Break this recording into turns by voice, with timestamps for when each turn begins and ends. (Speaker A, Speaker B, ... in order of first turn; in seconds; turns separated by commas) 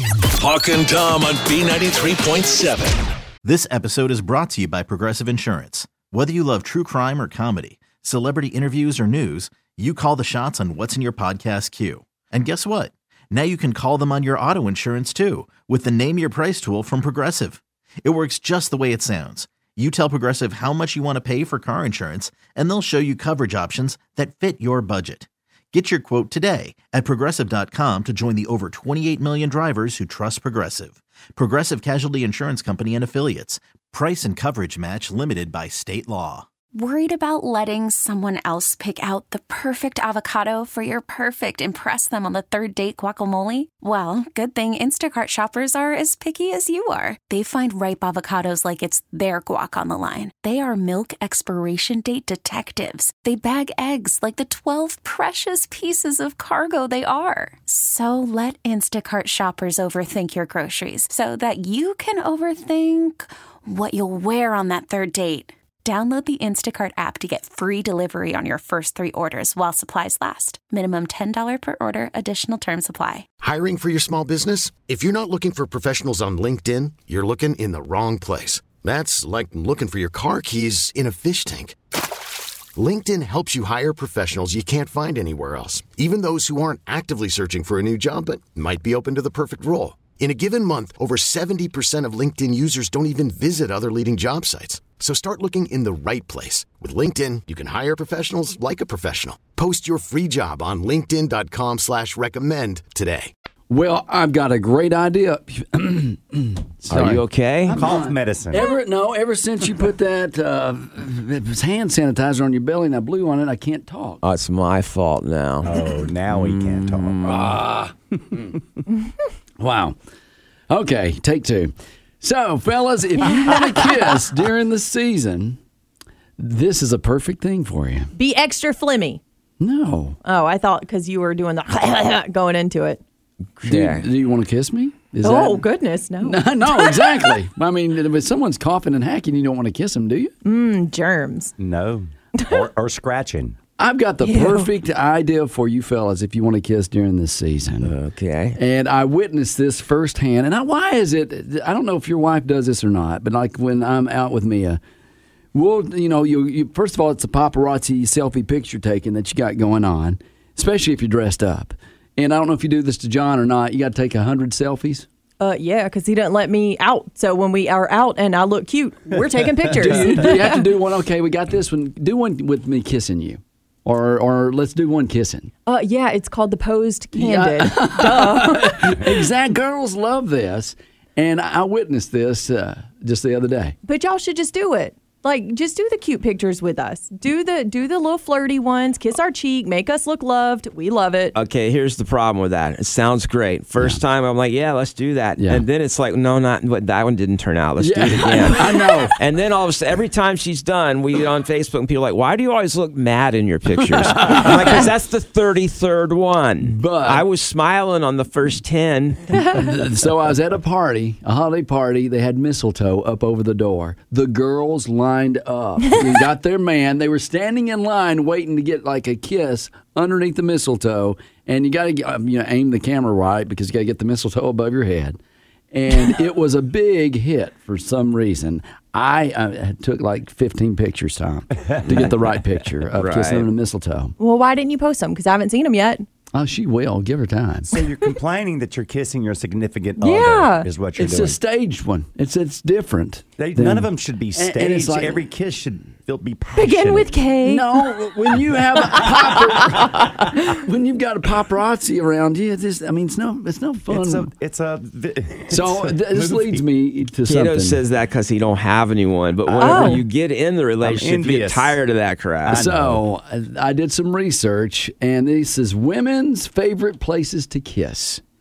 Speaker A: 0.4-3.1, Speaker B: 3.4-36.5, Speaker C: 36.7-73.3, Speaker D: 73.4-81.8, Speaker D: 82.8-103.3, Speaker E: 103.7-114.2, Speaker F: 106.9-107.8, Speaker G: 107.7-108.7, Speaker F: 114.2-115.8, Speaker G: 115.6-117.5, Speaker F: 116.3-117.5, Speaker E: 117.2-117.9, Speaker E: 119.6-120.0, Speaker E: 120.7-125.6, Speaker E: 126.4-128.1, Speaker H: 128.2-129.2, Speaker E: 129.6-130.2, Speaker H: 130.2-133.0, Speaker F: 133.6-134.1, Speaker E: 133.6-135.7, Speaker H: 135.2-137.3, Speaker E: 136.2-140.3, Speaker H: 140.4-141.5, Speaker G: 141.6-143.6, Speaker E: 143.8-147.9, Speaker F: 147.8-148.6, Speaker E: 148.6-154.8, Speaker E: 155.5-165.1, Speaker H: 165.4-170.7, Speaker E: 169.8-175.5, Speaker H: 175.7-179.2, Speaker E: 177.1-183.8, Speaker H: 183.8-191.3, Speaker F: 191.3-209.4, Speaker E: 195.4-195.6, Speaker E: 197.8-199.1, Speaker E: 206.6-207.2, Speaker E: 209.4-225.2, Speaker E: 225.7-234.1, Speaker G: 231.6-232.1, Speaker F: 232.9-233.5, Speaker H: 234.2-236.1, Speaker E: 236.3-237.7, Speaker G: 237.7-241.4, Speaker H: 240.0-240.7, Speaker E: 241.0-245.2, Speaker G: 243.4-247.2, Speaker H: 246.6-248.1, Speaker E: 247.4-254.3, Speaker H: 248.9-250.3, Speaker G: 253.9-256.6, Speaker E: 255.5-257.8, Speaker F: 257.3-262.7, Speaker G: 259.4-260.0, Speaker H: 259.6-260.0, Speaker G: 260.8-261.8, Speaker G: 262.4-263.0, Speaker E: 262.5-268.2